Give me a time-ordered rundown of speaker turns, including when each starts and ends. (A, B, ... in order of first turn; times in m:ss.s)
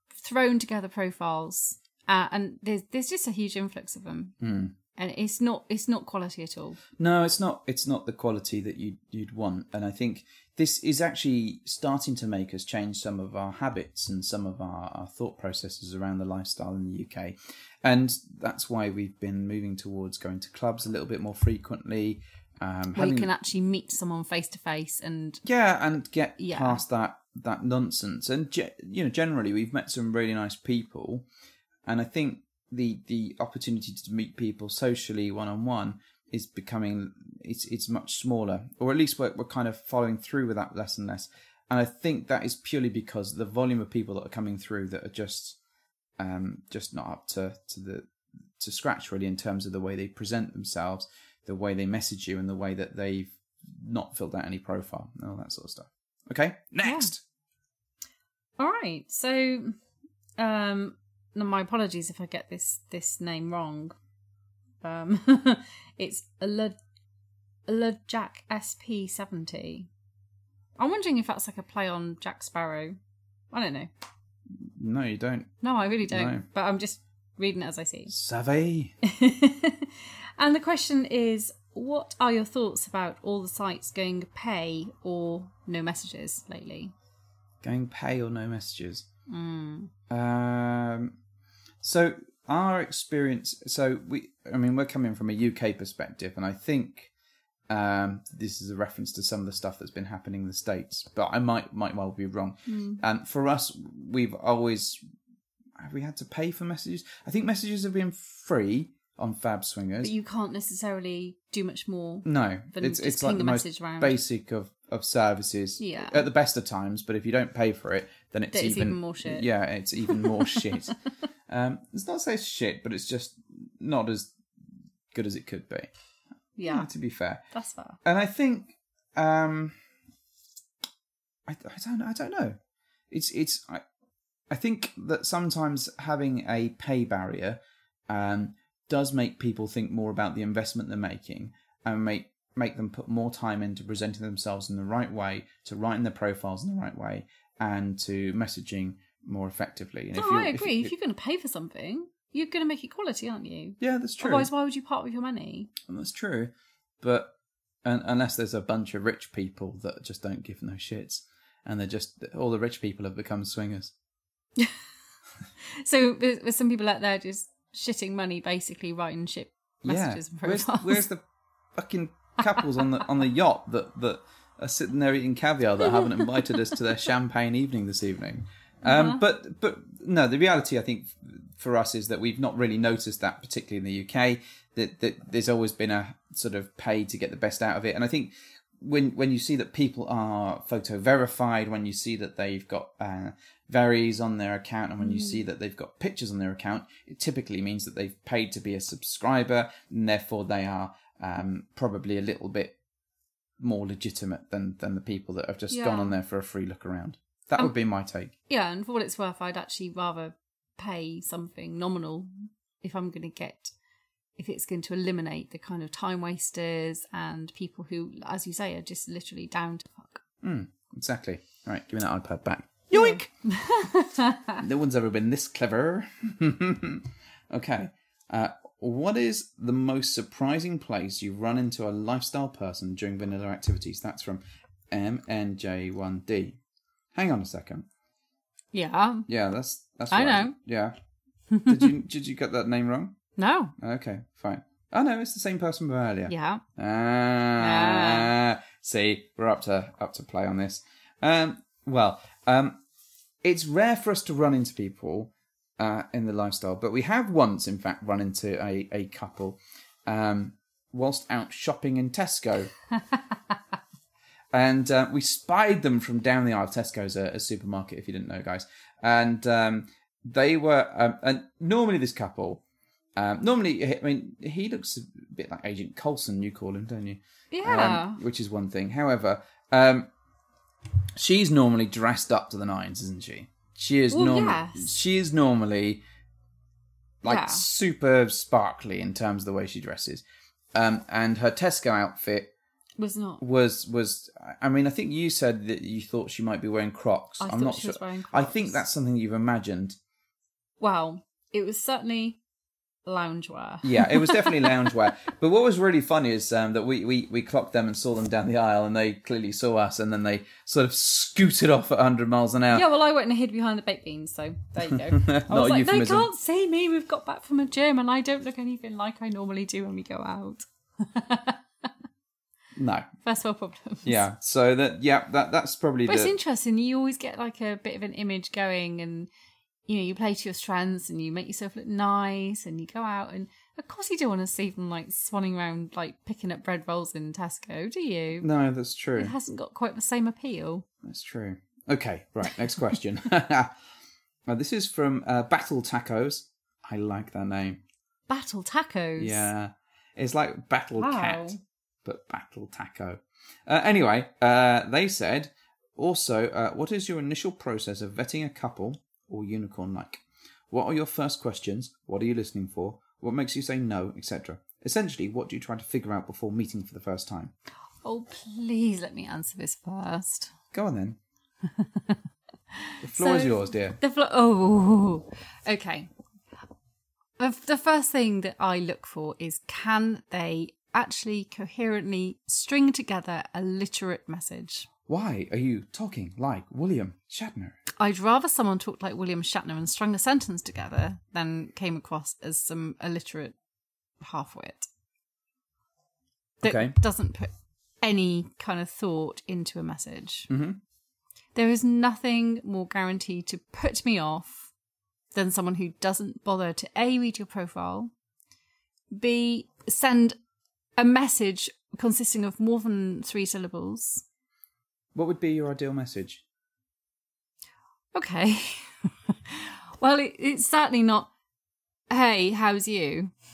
0:00.2-0:04.4 A
0:04.4-0:04.8 B
0:05.0-0:06.8 A
0:07.0-0:23.3 B
0:22.9-0:25.4 A
0:25.4-0:31.3 B
0:26.4-0:26.8 A
0:31.8-0:45.6 B
0:46.2-0:57.2 B
0:56.8-0:57.1 A
0:58.6-0:59.8 A
1:00.4-1:04.0 A
1:04.8-1:06.8 A
1:07.7-1:09.9 A
1:10.8-1:13.0 A
1:13.5-1:13.9 A
1:14.6-1:15.5 B
1:15.6-1:18.1 A
1:16.1-1:16.4 B
1:18.1-1:19.0 B
1:19.0-1:26.9 A
1:27.6-1:29.1 B
1:29.3-1:29.9 A
1:30.1-1:31.2 B
1:31.8-1:37.1 B
1:37.7-1:45.0 B
1:42.7-1:43.0 A
1:45.8-1:50.1 B
1:50.0-1:54.2 A
1:52.2-2:00.9 B
1:55.8-1:56.3 A
1:58.5-1:59.5 A
2:00.1-2:00.9 A
2:01.5-2:04.3 B
2:05.1-2:05.9 B
2:06.6-2:06.9 A
2:06.6-2:07.4 B
2:07.5-2:08.0 A
2:08.0-2:09.8 B
2:11.5-2:12.6 B
2:13.1-2:13.8 B
2:14.5-2:30.9 B
2:30.2-2:35.7 A
2:33.8-2:34.5 B
2:35.9-2:37.3 B
2:37.8-2:43.9 B
2:45.7-2:51.0 A
2:49.8-2:51.2 B
2:51.8-3:22.8 B
2:52.6-2:52.8 A
2:58.8-2:59.2 A
3:15.0-3:15.4 A
3:23.6-3:28.3 B
3:25.7-3:26.2 A
3:28.5-3:32.3 A
3:32.8-3:33.7 A
3:34.4-3:40.2 A
3:40.4-3:43.3 B
3:42.9-3:44.6 A
3:44.6-3:56.6 B
3:57.1-3:57.9 B
3:58.7-3:59.3 A
3:59.3-4:01.0 B
4:00.1-4:00.5 A
4:01.5-4:01.9 A
4:01.7-4:03.2 B
4:03.4-4:03.7 A
4:03.8-4:12.8 B
4:06.3-4:06.6 A
4:07.6-4:08.3 A
4:13.4-4:22.7 B
4:24.5-4:32.6 B
4:33.2-4:40.1 B
4:37.5-4:38.2 A
4:41.2-4:46.0 B
4:44.1-4:44.9 A
4:47.2-4:52.5 B
4:47.2-4:47.7 A
4:53.0-4:53.4 A
4:53.4-5:00.0 B
4:57.4-4:58.8 A
5:00.8-5:02.4 A
5:03.1-5:04.9 A
5:03.8-5:12.9 B
5:12.7-5:21.9 A
5:14.9-5:16.3 B
5:22.8-5:23.1 B
5:23.2-5:24.2 A
5:24.0-5:26.4 B
5:26.1-5:29.3 A
5:29.9-5:38.5 A
5:38.4-5:39.4 B
5:39.2-5:40.9 A
5:41.0-5:43.8 B
5:44.5-5:47.8 B
5:48.3-5:49.5 A
5:49.2-6:07.5 B
5:51.0-5:51.6 A
6:08.0-6:10.5 A
6:10.7-6:11.2 B
6:11.7-6:12.2 A
6:12.7-6:16.1 A
6:13.0-6:14.0 B
6:17.4-6:24.9 A
6:25.1-6:27.8 B
6:28.0-6:33.6 A
6:34.2-6:34.9 A
6:36.6-6:37.0 B
6:36.6-6:37.5 A
6:38.0-6:40.5 A
6:40.5-6:40.8 B
6:41.6-6:44.7 A
6:45.3-6:48.1 A
6:49.1-6:50.4 A
6:51.0-6:54.2 A
6:55.1-6:56.4 B
6:58.1-7:01.3 A
7:02.1-7:03.3 A